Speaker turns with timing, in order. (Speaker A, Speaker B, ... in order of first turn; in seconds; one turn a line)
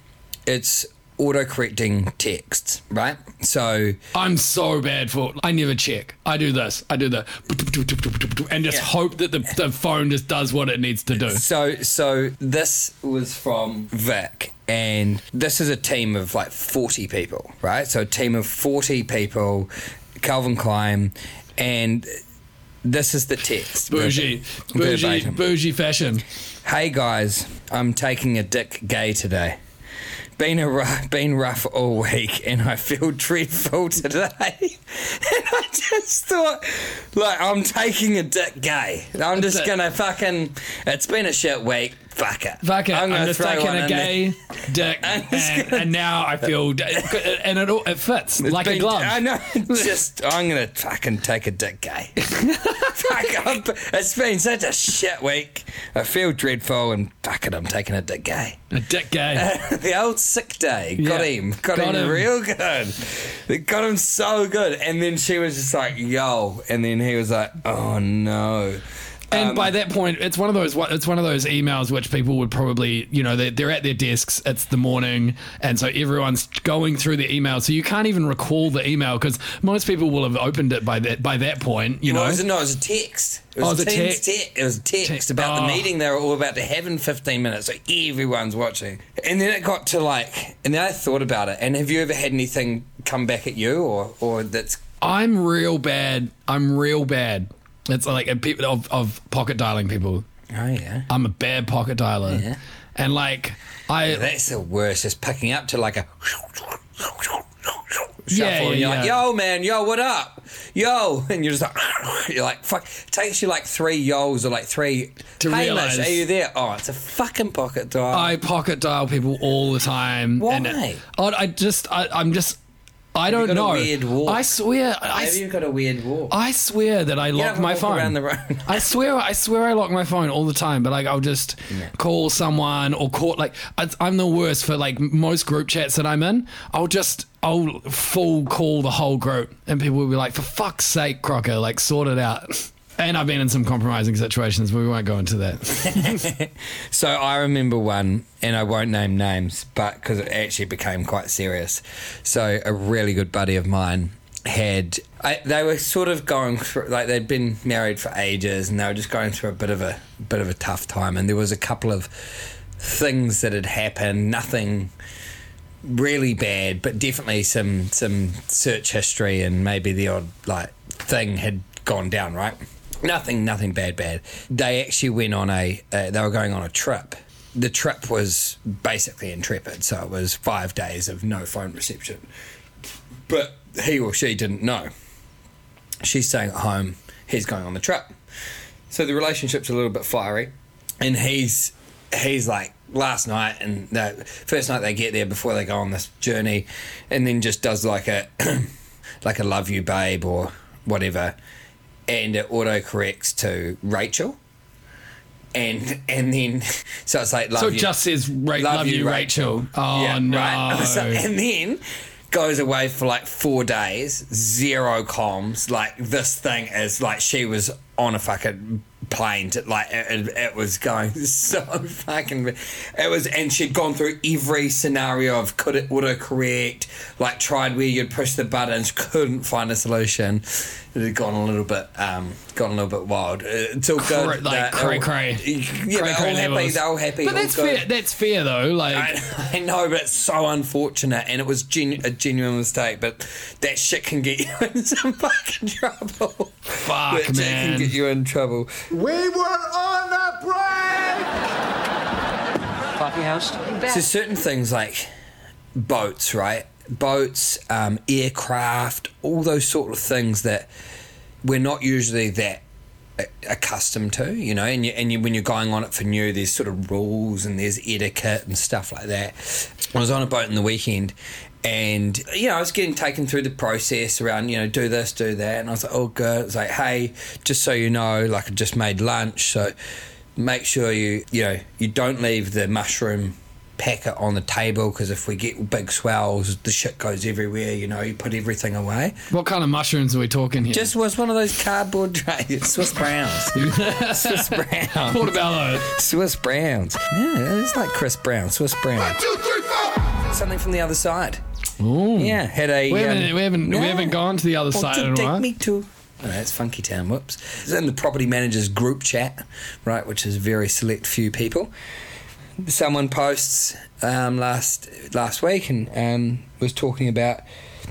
Speaker A: 0.5-4.0
Speaker B: 4.1-11.4
Speaker A: 11.1-22.1
Speaker A: 22.8-25.4
Speaker B: 23.9-26.2
Speaker A: 26.6-29.6
Speaker A: 30.4-44.4
Speaker B: 39.4-39.7
Speaker B: 42.6-49.9
Speaker A: 45.0-45.9
Speaker A: 48.4-58.6
Speaker B: 52.2-53.0
Speaker B: 58.7-59.5
Speaker A: 59.3-69.7
Speaker B: 61.0-62.3
Speaker B: 69.3-82.4
Speaker A: 82.0-94.8
Speaker B: 83.6-84.2
Speaker B: 85.0-85.9
Speaker B: 95.0-100.2
Speaker A: 100.5-101.1
Speaker B: 101.1-104.2
Speaker A: 102.3-102.6
Speaker A: 104.0-118.3
Speaker B: 108.3-109.2
Speaker B: 115.4-116.2
Speaker B: 118.1-122.6
Speaker A: 120.4-121.0
Speaker B: 123.2-125.4
Speaker A: 123.3-124.5
Speaker A: 125.1-126.3
Speaker B: 126.3-146.3
Speaker A: 127.3-128.9
Speaker A: 145.8-164.9
Speaker A: 165.8-182.3
Speaker A: 183.3-184.9
Speaker A: 186.0-188.1
Speaker A: 188.9-198.7
Speaker A: 199.2-201.4
Speaker A: 202.1-204.4
Speaker A: 205.6-208.0
Speaker B: 207.6-211.2
Speaker A: 208.6-237.9
Speaker B: 234.0-239.1
Speaker A: 238.9-248.7
Speaker B: 246.8-247.9
Speaker C: 248.9-251.3
Speaker C: 252.9-253.8
Speaker A: 253.8-255.1
Speaker A: 255.8-260.7
Speaker A: 261.4-262.6
Speaker A: 263.2-279.7
Speaker A: 280.4-289.2
Speaker B: 289.3-290.9
Speaker A: 290.7-299.2
Speaker B: 293.5-295.9
Speaker C: 299.3-299.9
Speaker A: 300.1-301.4
Speaker B: 301.8-305.5
Speaker A: 302.2-304.2
Speaker A: 304.7-311.7
Speaker A: 312.6-317.4